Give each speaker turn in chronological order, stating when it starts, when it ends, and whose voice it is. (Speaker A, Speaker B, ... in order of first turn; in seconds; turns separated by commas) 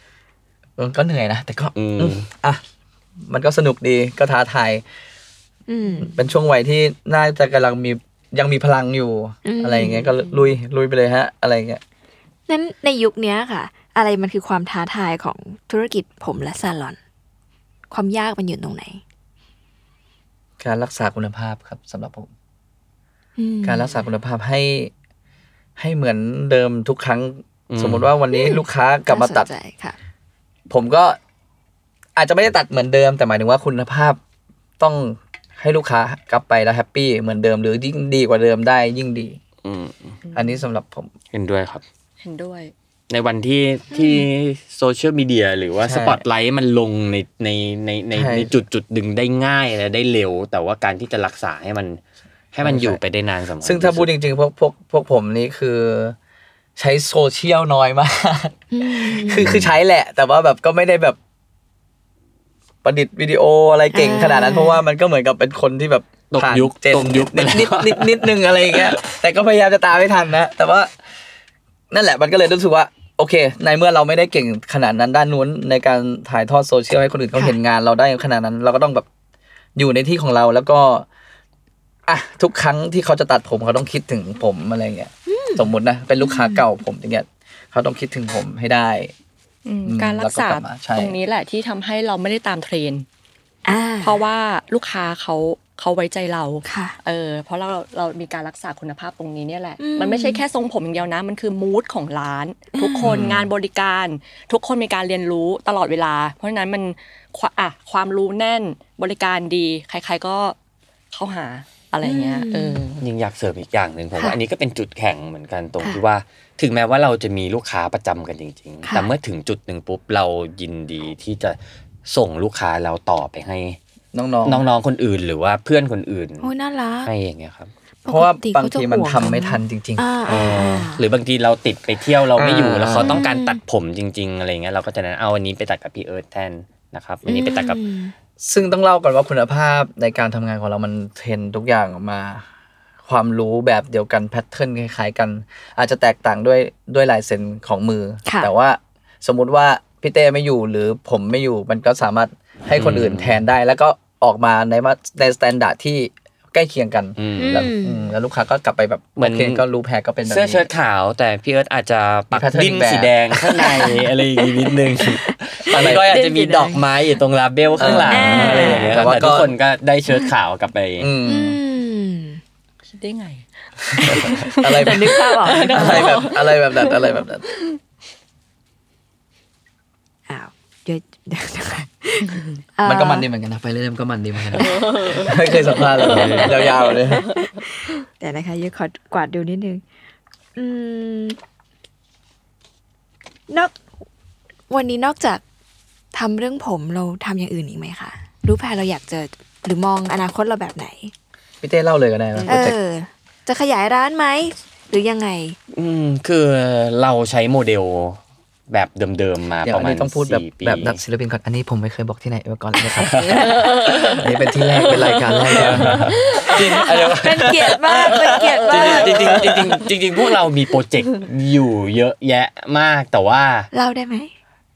Speaker A: 0.8-2.6, Speaker B: 1.8-2.2, Speaker A: 3.3-4.8, Speaker C: 5.7-6.2, Speaker A: 6.0-11.8, Speaker C: 9.4-10.1, Speaker C: 12.5-17.0, Speaker C: 17.9-19.0, Speaker A: 20.6-22.3, Speaker C: 23.4-24.0, Speaker A: 23.6-24.9, Speaker A: 25.8-29.5, Speaker B: 27.7-28.1, Speaker C: 28.3-30.0, Speaker A: 30.7-31.2, Speaker A: 32.2-34.2, Speaker A: 34.8-39.4, Speaker B: 39.6-40.2, Speaker D: 40.2-40.6, Speaker A: 40.4-41.1, Speaker B: 41.3-41.8, Speaker D: 42.2-42.7, Speaker B: 43.1-52.0, Speaker C: 43.9-44.2, Speaker A: 45.8-46.2, Speaker A: 48.1-48.5, Speaker B: 52.5-54.1, Speaker A: 52.6-53.0, Speaker A: 53.6-56.2, Speaker A: 56.8-61.2, Speaker C: 58.7-59.4, Speaker B: 59.4-59.7, Speaker A: 62.8-70.9, Speaker C: 63.9-64.8, Speaker B: 66.3-69.0, Speaker A: 71.9-79.1, Speaker A: 79.8-81.1, Speaker A: 82.1-89.1, Speaker C: 85.3-86.6, Speaker D: 89.7-93.1, Speaker A: 89.9-91.2, Speaker C: 93.7-94.2, Speaker D: 94.0-110.5, Speaker C: 96.7-97.0, Speaker C: 99.8-100.4, Speaker C: 102.7-103.2, Speaker B: 103.0-103.5, Speaker D: 111.1-113.0, Speaker C: 112.0-112.8, Speaker B: 113.0-123.8, Speaker C: 118.9-119.1, Speaker A: 124.1-124.6, Speaker B: 124.5-126.5, Speaker C: 126.4-127.1, Speaker B: 127.0-127.7, Speaker C: 128.1-131.0, Speaker A: 128.1-130.1, Speaker B: 130.3-137.8, Speaker A: 132.4-133.2, Speaker C: 133.0-133.6, Speaker C: 137.3-138.1, Speaker A: 138.4-142.4, Speaker A: 143.1-160.7, Speaker C: 148.3-148.5, Speaker B: 152.8-153.4, Speaker B: 157.2-157.7, Speaker C: 157.4-158.1, Speaker B: 159.2-159.6, Speaker B: 160.3-171.1, Speaker A: 162.3-163.7, Speaker C: 163.6-166.8, Speaker A: 165.7-166.1, Speaker A: 167.8-169.5, Speaker C: 167.8-169.0, Speaker A: 171.0-171.6, Speaker C: 171.2-172.4, Speaker D: 172.9-173.5, Speaker A: 173.9-177.4, Speaker C: 174.0-176.3, Speaker D: 174.0-177.8, Speaker C: 180.3-183.3, Speaker D: 182.3-182.5, Speaker A: 182.8-187.2, Speaker C: 184.6-185.3, Speaker D: 184.6-187.4, Speaker B: 186.0-186.7, Speaker C: 187.3-189.8, Speaker C: 190.6-191.4, Speaker C: 193.5-193.8, Speaker C: 194.7-195.4, Speaker C: 196.1-201.1, Speaker A: 201.6-202.8, Speaker B: 202.3-202.6, Speaker C: 202.5-205.6, Speaker B: 205.7-208.2, Speaker B: 208.7-211.0, Speaker A: 209.7-213.2, Speaker C: 212.9-213.6, Speaker B: 213.1-213.5, Speaker D: 213.4-216.9, Speaker A: 214.1-219.7, Speaker B: 215.5-216.2, Speaker C: 216.8-219.4, Speaker D: 218.2-218.9, Speaker B: 218.7-223.7, Speaker C: 223.7-224.3